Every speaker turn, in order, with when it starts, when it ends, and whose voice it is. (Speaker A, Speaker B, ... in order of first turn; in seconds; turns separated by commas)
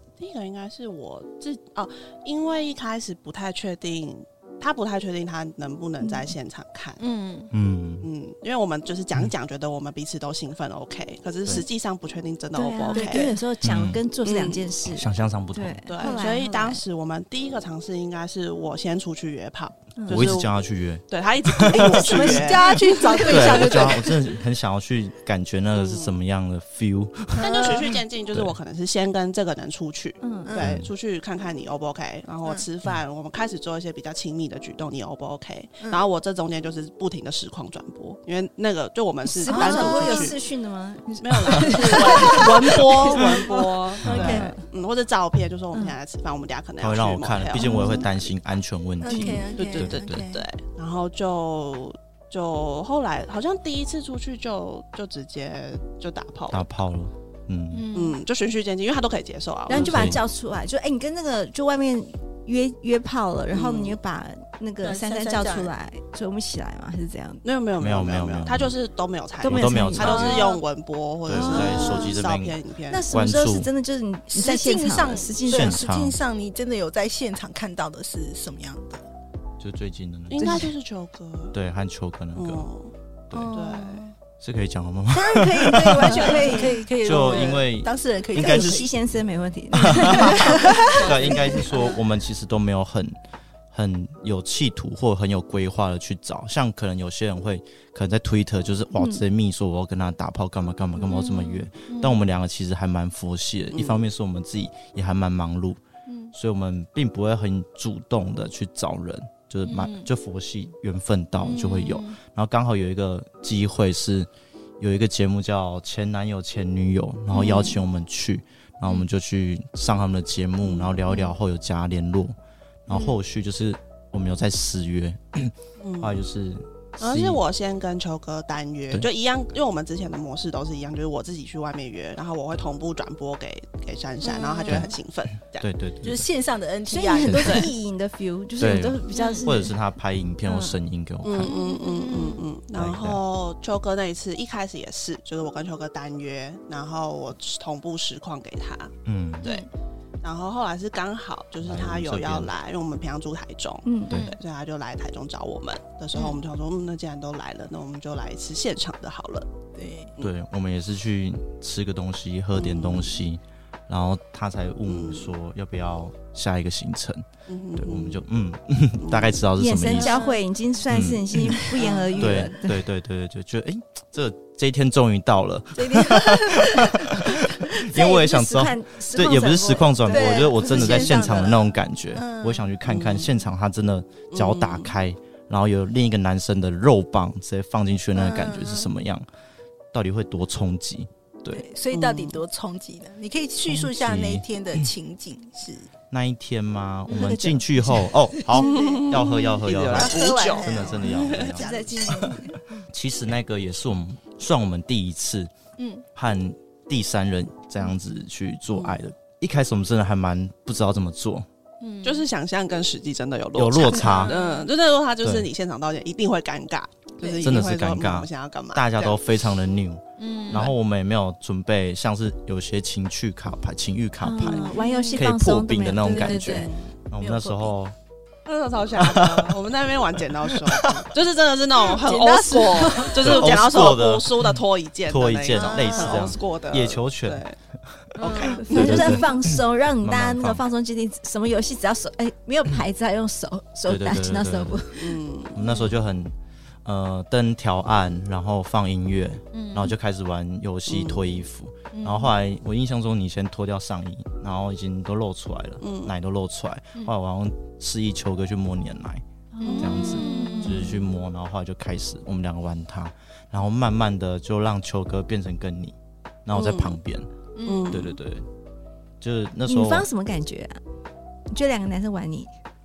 Speaker A: 0.2-7.0, Speaker B: 7.0-7.5, Speaker C: 7.5-8.1, Speaker A: 8.0-13.4, Speaker D: 12.5-16.8, Speaker B: 12.9-13.4, Speaker C: 13.6-14.0, Speaker A: 14.2-14.7, Speaker C: 14.9-15.8, Speaker A: 15.9-20.5, Speaker D: 20.0-20.3, Speaker C: 20.1-22.5, Speaker A: 21.1-23.6, Speaker B: 21.9-24.1, Speaker D: 23.2-23.7, Speaker C: 23.2-27.8, Speaker A: 25.7-26.2, Speaker A: 27.4-40.4, Speaker B: 27.4-27.9, Speaker D: 30.2-30.6, Speaker B: 30.4-30.8, Speaker C: 30.6-30.9, Speaker D: 39.2-44.6, Speaker B: 39.5-40.3, Speaker A: 41.2-48.3, Speaker B: 41.9-42.5, Speaker B: 43.2-43.5, Speaker C: 44.0-44.4, Speaker B: 44.1-44.5, Speaker C: 46.8-50.3, Speaker D: 47.6-48.0, Speaker B: 47.6-48.0, Speaker B: 49.0-50.4, Speaker D: 49.1-49.5, Speaker A: 49.5-56.6, Speaker C: 56.5-57.9, Speaker B: 57.7-58.2, Speaker A: 57.9-60.2, Speaker D: 59.7-67.4, Speaker C: 59.7-60.2, Speaker A: 63.5-64.0, Speaker B: 64.8-65.8, Speaker A: 67.4-73.1, Speaker C: 67.8-68.7, Speaker D: 69.4-70.6, Speaker C: 69.4-70.4, Speaker B: 70.2-70.6, Speaker C: 71.2-72.6, Speaker D: 71.3-72.0, Speaker B: 71.5-72.1, Speaker D: 72.9-75.8, Speaker C: 73.1-73.7, Speaker B: 74.3-79.1, Speaker C: 75.5-76.2, Speaker C: 79.6-80.7, Speaker A: 80.3-81.5, Speaker D: 80.4-80.7, Speaker C: 81.5-82.7, Speaker A: 82.3-84.1, Speaker B: 83.3-84.1, Speaker C: 84.4-88.9, Speaker D: 85.1-87.5, Speaker B: 86.0-88.9, Speaker D: 88.3-91.6, Speaker C: 89.8-93.2, Speaker B: 89.8-91.8, Speaker A: 90.8-91.6, Speaker C: 93.7-105.8, Speaker D: 98.9-99.2, Speaker D: 101.1-101.5, Speaker B: 101.9-102.2, Speaker A: 103.7-104.0, Speaker B: 106.1-106.3, Speaker C: 106.3-122.3, Speaker B: 109.7-110.1, Speaker B: 111.5-112.1, Speaker A: 120.6-121.2, Speaker C: 122.9-127.4, Speaker A: 125.8-126.2, Speaker A: 127.0-135.7, Speaker B: 134.3-134.9, Speaker C: 134.7-134.9, Speaker C: 135.6-136.2, Speaker B: 136.0-137.7, Speaker D: 136.9-139.7, Speaker C: 137.2-137.6, Speaker A: 137.4-137.7, Speaker C: 138.6-141.5, Speaker D: 140.4-140.8, Speaker A: 141.2-149.7, Speaker B: 141.5-142.4, Speaker C: 142.7-143.2, Speaker C: 149.0-149.5, Speaker A: 150.2-159.5, Speaker C: 151.6-152.5, Speaker D: 153.8-154.2, Speaker B: 159.8-160.1, Speaker C: 160.2-167.2, Speaker A: 162.5-163.2, Speaker A: 164.9-165.3, Speaker A: 167.5-168.2, Speaker C: 167.8-170.2, Speaker A: 169.0-170.2, Speaker D: 169.6-172.8, Speaker B: 170.0-170.4, Speaker C: 170.9-171.6, Speaker A: 171.8-172.5, Speaker B: 171.8-172.0, Speaker C: 172.2-189.2, Speaker B: 175.8-176.6, Speaker D: 175.9-177.1, Speaker D: 177.8-181.4, Speaker B: 180.1-182.7, Speaker A: 182.8-183.3, Speaker A: 184.3-184.9, Speaker B: 188.1-188.9, Speaker C: 189.9-191.7, Speaker B: 191.5-195.9, Speaker A: 191.9-192.4, Speaker C: 193.7-194.8, Speaker C: 196.1-205.5, Speaker D: 197.1-198.2, Speaker B: 198.5-202.3, Speaker A: 198.6-201.5, Speaker D: 201.5-202.8, Speaker B: 205.8-206.0, Speaker C: 206.1-211.4, Speaker A: 208.7-209.0, Speaker B: 211.8-212.2, Speaker A: 212.0-219.2, Speaker C: 213.5-214.3, Speaker B: 214.0-214.7, Speaker C: 215.2-215.5, Speaker B: 217.2-217.4, Speaker C: 217.4-227.9, Speaker B: 220.2-220.7, Speaker D: 224.2-226.7, Speaker A: 224.4-225.2, Speaker B: 224.8-225.2, Speaker A: 226.1-226.9, Speaker B: 227.2-227.6, Speaker A: 228.4-237.6, Speaker C: 229.0-229.6, Speaker C: 230.4-231.1, Speaker B: 231.8-233.4, Speaker C: 233.2-234.6, Speaker C: 235.1-238.1, Speaker B: 235.5-236.3, Speaker A: 238.2-239.2, Speaker B: 238.2-238.9, Speaker D: 238.5-245.2, Speaker C: 238.7-240.6, Speaker C: 243.9-244.8, Speaker A: 244.9-245.8, Speaker C: 245.5-259.2, Speaker B: 249.5-249.9, Speaker A: 250.9-251.3, Speaker B: 251.9-252.3, Speaker A: 255.8-256.1, Speaker D: 259.5-261.0, Speaker B: 259.6-260.9, Speaker A: 259.6-260.6, Speaker C: 259.8-267.3, Speaker A: 266.5-267.0, Speaker B: 267.6-267.9, Speaker A: 267.6-268.2, Speaker C: 267.9-268.4, Speaker C: 269.2-270.1, Speaker D: 269.7-270.8, Speaker D: 271.5-272.5